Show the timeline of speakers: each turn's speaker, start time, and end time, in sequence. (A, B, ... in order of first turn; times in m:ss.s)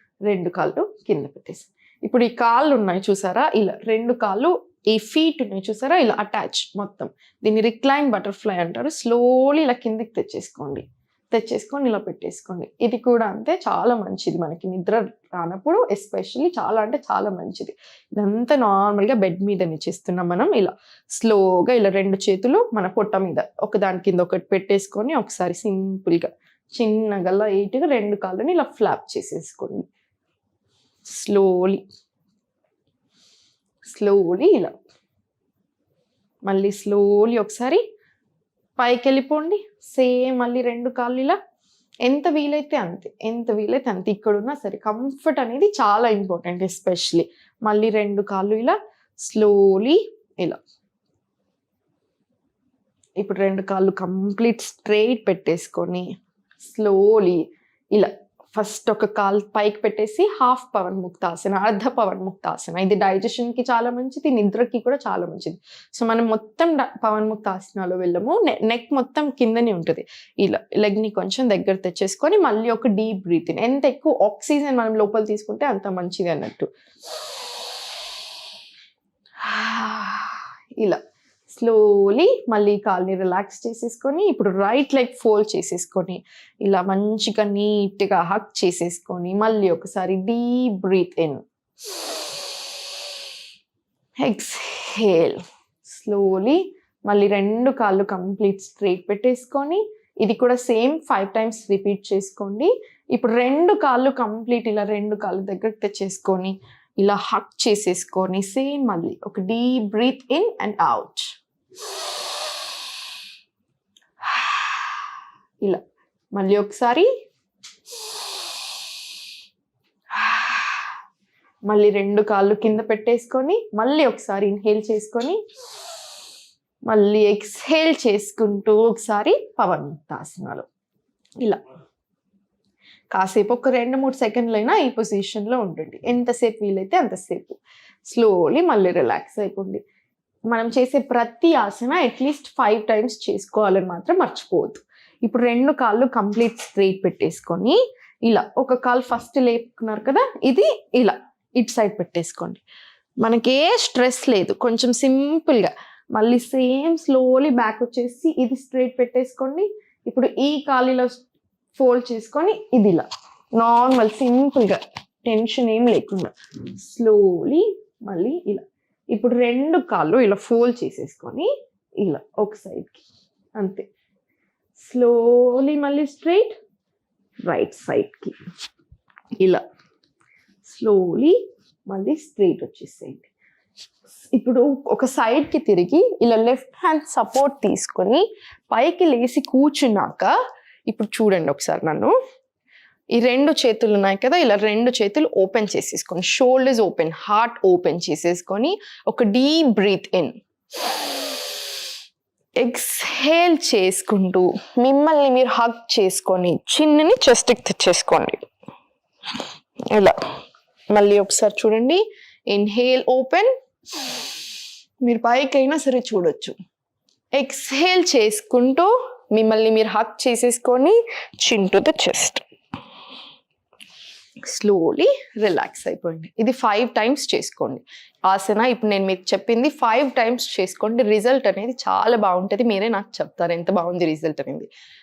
0:00.2-0:29.9 A
0:31.1-0:31.8 A
0:33.8-0:34.7 A
0:36.4-0:37.8 A
0:38.8-0:41.4 A
0:42.0-0:50.6 A
0:53.2-0:56.1 A
0:56.6-1:16.7 A
1:19.4-1:31.4 A
1:34.2-1:51.4 A
1:54.2-1:55.0 A
1:56.3-1:57.1 A
2:00.1-2:00.8 A
2:01.6-2:05.4 A
2:06.9-2:10.6 A
2:13.1-2:19.8 A
2:20.5-2:32.6 A
2:33.2-2:41.2 A
2:41.8-2:51.5 A
2:52.0-2:53.0 A
2:53.6-2:53.9 A
2:54.8-2:56.5 A
2:57.4-2:58.4 A
3:00.6-3:01.4 A
3:01.9-3:03.3 A
3:04.3-3:10.3 A
3:10.9-3:12.1 A
3:13.1-3:20.3 A
3:22.6-3:28.4 A
3:29.9-3:30.2 A
3:30.9-3:33.5 A
3:35.0-3:36.5 A
3:37.4-3:42.4 A
3:44.4-3:54.7 A